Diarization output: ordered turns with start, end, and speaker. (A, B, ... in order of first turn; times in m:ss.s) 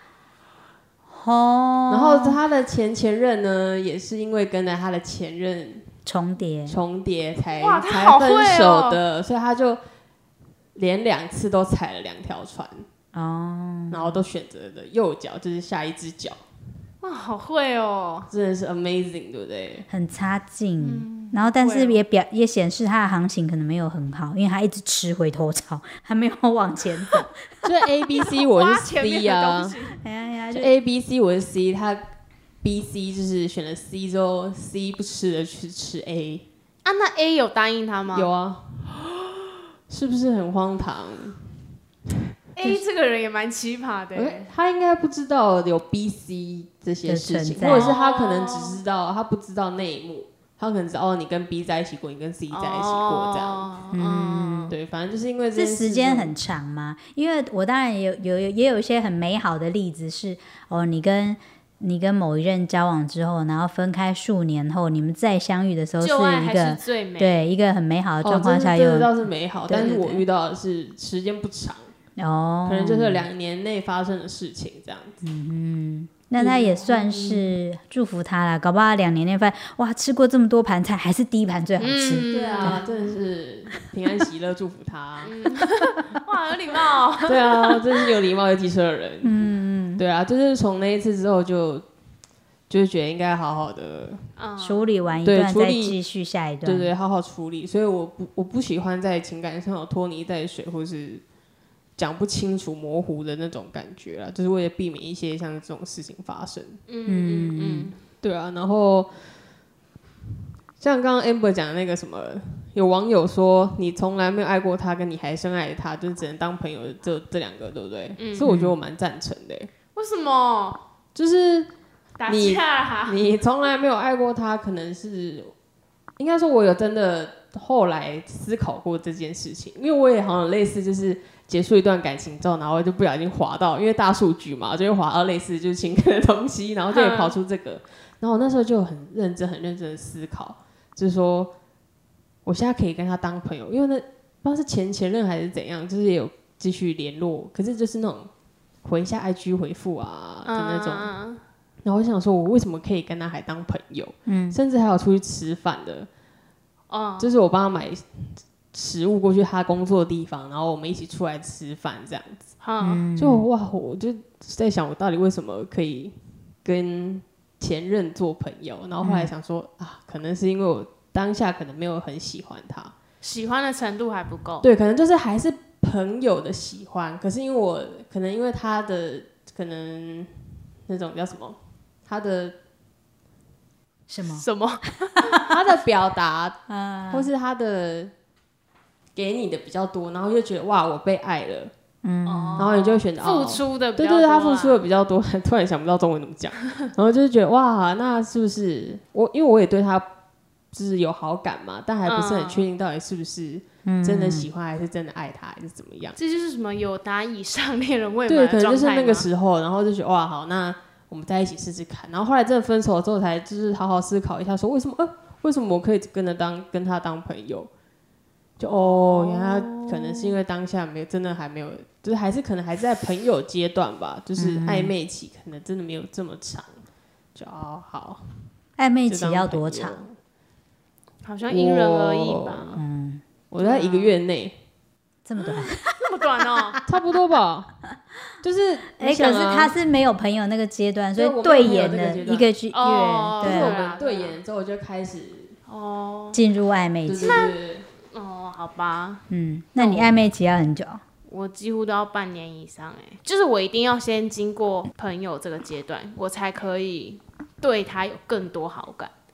0:01.1-0:02.4 A
0:01.9-0:05.9 B
0:06.1-0:06.8 A
0:06.7-0:09.8 B
0:07.6-0:09.0 C
0:10.8-0:12.9 B
0:13.1-0:14.2 A
0:13.9-0:16.4 B
0:17.0-0:18.3 C
0:18.3-0:19.9 B
0:19.9-0:27.3 A
0:20.8-0:22.0 C
0:27.6-0:29.8 B
0:28.1-0:30.0 C
0:30.0-0:30.7 A
0:30.5-0:32.1 B
0:32.6-0:36.4 B
0:36.8-0:38.3 C
0:38.1-0:39.0 B
0:39.9-0:41.6 B
0:42.6-0:44.5 C
0:44.2-0:53.7 B
0:47.1-0:47.9 A
0:47.7-0:48.8 C
0:52.5-0:54.7 C
0:53.9-0:54.7 A
0:54.7-0:56.4 B
0:55.5-1:09.1 A
1:06.0-1:07.4 C
1:08.2-1:11.9 B
1:09.7-1:10.2 A
1:12.2-1:13.3 A
1:12.7-1:15.2 B
1:15.2-1:22.8 A
1:16.4-1:17.6 B
1:21.8-1:22.9 C
1:22.3-1:25.4 B
1:25.2-1:27.8 C
1:27.2-1:29.4 B
1:29.2-1:30.0 A
1:30.0-1:31.8 B
1:32.7-1:34.3 B
1:34.4-1:34.9 C
1:34.6-1:36.9 A
1:35.2-1:36.0 B
1:36.6-1:41.2 B
1:42.0-1:46.8 B
1:46.9-1:48.0 C
1:47.1-1:47.9 A
1:48.2-1:49.3 B
1:50.8-1:59.7 B
1:58.2-1:58.5 C
1:58.4-1:58.8 A
1:59.9-2:00.8 C
2:01.2-2:01.7 B
2:02.2-2:03.2 C
2:02.3-2:05.5 B
2:06.2-2:21.5 B
2:16.9-2:17.4 C
2:22.5-2:28.3 B
2:28.8-2:31.1 B
2:30.5-2:31.4 C
2:31.8-2:36.1 B
2:34.3-2:34.6 A
2:36.9-2:37.3 C
2:37.2-2:42.5 B
2:42.6-2:43.0 C
2:42.8-2:43.5 A
2:43.2-2:52.9 B
2:49.0-2:49.3 A
2:53.2-2:54.7 C
2:54.6-3:00.3 B
3:00.9-3:02.6 B
3:04.1-3:04.5 A
3:04.3-3:05.5 C
3:05.4-3:08.1 B
3:06.7-3:07.3 A
3:09.2-3:11.7 B
3:12.0-3:12.7 A
3:12.3-3:14.8 C
3:12.6-3:20.1 B
3:20.7-3:26.2 B
3:22.1-3:22.6 C
3:23.8-3:24.5 A
3:26.2-3:29.3 C
3:28.3-3:37.7 B
3:38.6-3:46.8 B
3:38.6-3:40.4 C
3:44.4-3:44.9 A
3:47.4-3:48.5 B
3:48.8-3:50.0 A
3:49.1-3:50.1 B
3:51.2-3:52.8 C
3:51.5-3:52.8 B
3:52.8-3:53.2 A
3:53.5-3:54.6 B
3:53.6-3:54.2 C
3:55.2-3:55.9 A
3:55.9-3:56.8 C
3:56.9-3:57.8 B
3:58.4-3:59.7 B
3:59.0-4:03.8 A
4:01.2-4:02.5 B
4:02.7-4:04.4 C
4:03.4-4:05.6 B
4:05.7-4:06.4 C
4:06.3-4:07.4 A
4:07.1-4:07.9 B
4:07.2-4:09.2 C
4:09.3-4:11.0 A
4:09.8-4:10.1 C
4:11.3-4:19.1 C